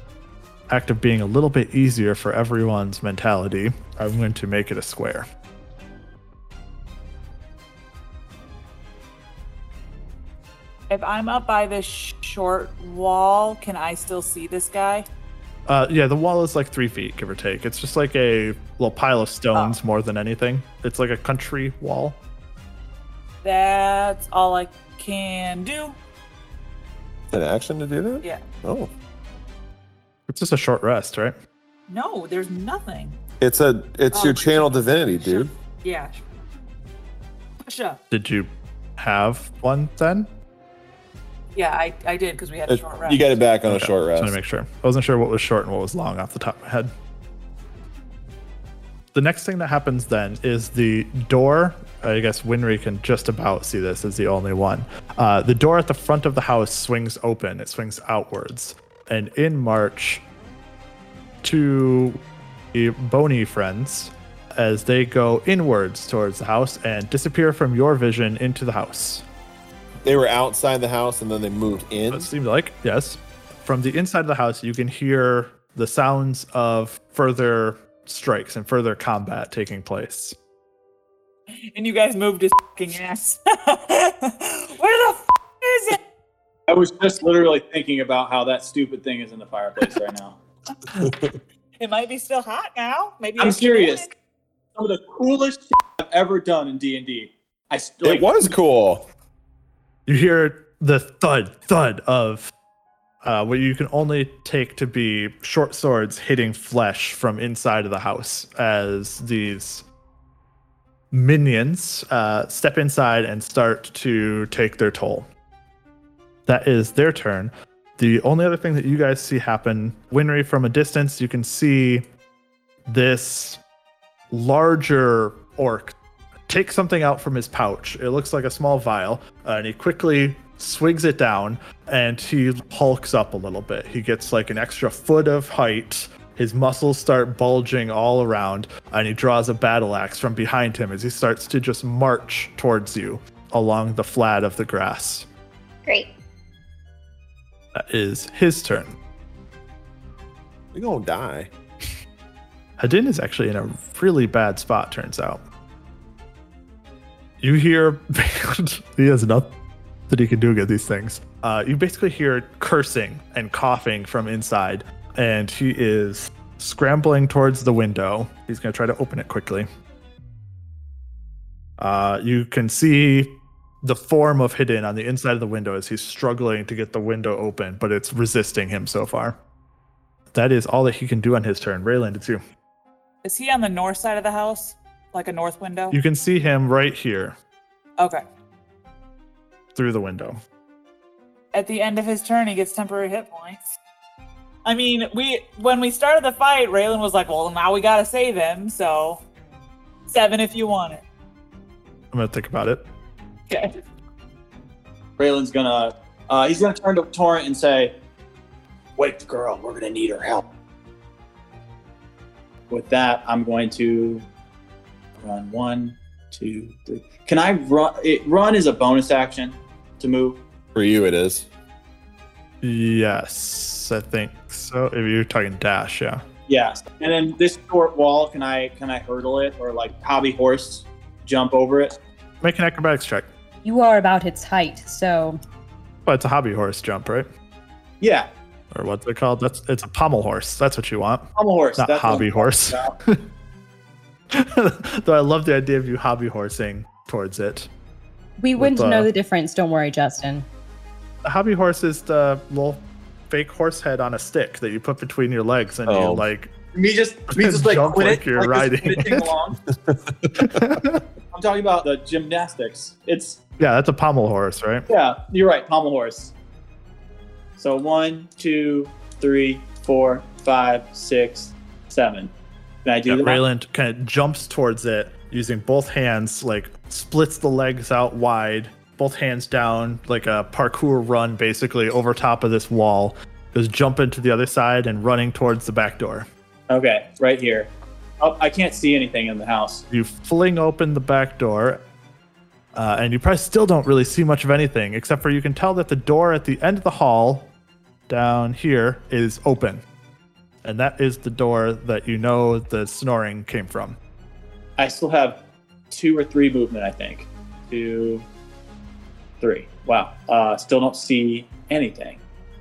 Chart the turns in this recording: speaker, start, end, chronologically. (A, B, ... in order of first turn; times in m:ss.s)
0:00.7-0:05.3 A
0:10.9-0:15.1 B
0:15.7-0:22.2 A
0:23.4-0:26.0 B
0:27.3-0:28.9 C
0:30.3-0:31.4 A
0:31.9-0:33.2 B
0:33.4-0:35.5 C
0:34.1-0:36.2 B
0:37.6-0:38.0 B
0:38.1-0:40.3 A
0:41.6-0:43.3 B
0:42.7-0:44.4 C
0:43.7-0:46.9 A
0:49.1-1:00.2 A
1:01.4-1:02.2 A
1:02.7-1:09.2 A
1:10.0-1:12.3 C
1:12.1-1:20.4 A
1:21.5-1:26.0 B
1:26.7-1:30.4 D
1:31.8-1:34.1 B
1:33.4-1:34.0 D
1:34.8-1:38.4 D
1:38.0-1:39.0 C
1:40.1-1:42.5 A
1:43.2-1:49.8 A
1:51.1-1:55.3 A
1:56.5-2:02.0 A
2:02.9-2:03.6 A
2:04.3-2:05.9 A
2:06.5-2:25.3 A
2:27.8-2:29.0 A
2:30.7-2:31.5 C
2:32.8-2:35.4 A
2:37.4-2:39.5 A
2:40.1-2:49.7 A
2:51.8-2:59.4 A
3:00.3-3:02.4 A
3:03.2-3:06.0 B
3:05.9-3:07.4 A
3:08.0-3:08.2 B
3:09.7-3:10.4 A
3:11.5-3:13.8 B
3:14.6-3:19.2 B
3:20.1-3:21.0 B
3:22.1-3:22.8 A
3:23.5-3:23.8 B
3:25.2-3:27.9 D
3:29.0-3:30.4 D
3:32.7-3:34.2 D
3:35.2-3:40.4 D
3:40.8-3:41.5 C
3:42.6-3:46.2 A
3:46.5-3:52.0 D
3:52.4-3:53.3 A
3:53.6-3:55.4 E
3:56.1-3:57.3 A
3:58.0-3:58.3 D
3:58.7-4:03.2 A
4:01.4-4:03.0 D
4:04.3-4:07.7 A
4:08.4-4:10.5 E
4:08.6-4:09.1 A
4:11.2-4:16.5 A
4:15.9-4:16.3 C
4:16.7-4:19.6 D
4:17.3-4:19.3 A
4:19.9-4:20.6 C
4:20.4-4:21.0 A
4:21.3-4:23.4 D
4:23.6-4:24.9 A
4:24.9-4:26.3 D
4:27.6-4:32.3 D
4:32.8-4:33.4 D
4:33.1-4:46.3 A
4:46.7-4:49.8 D
4:49.9-4:51.8 A
4:52.7-4:57.5 A
4:58.1-4:59.8 A
5:00.6-5:04.0 A
5:04.8-5:05.4 D
5:05.9-5:08.3 D
5:09.4-5:12.2 D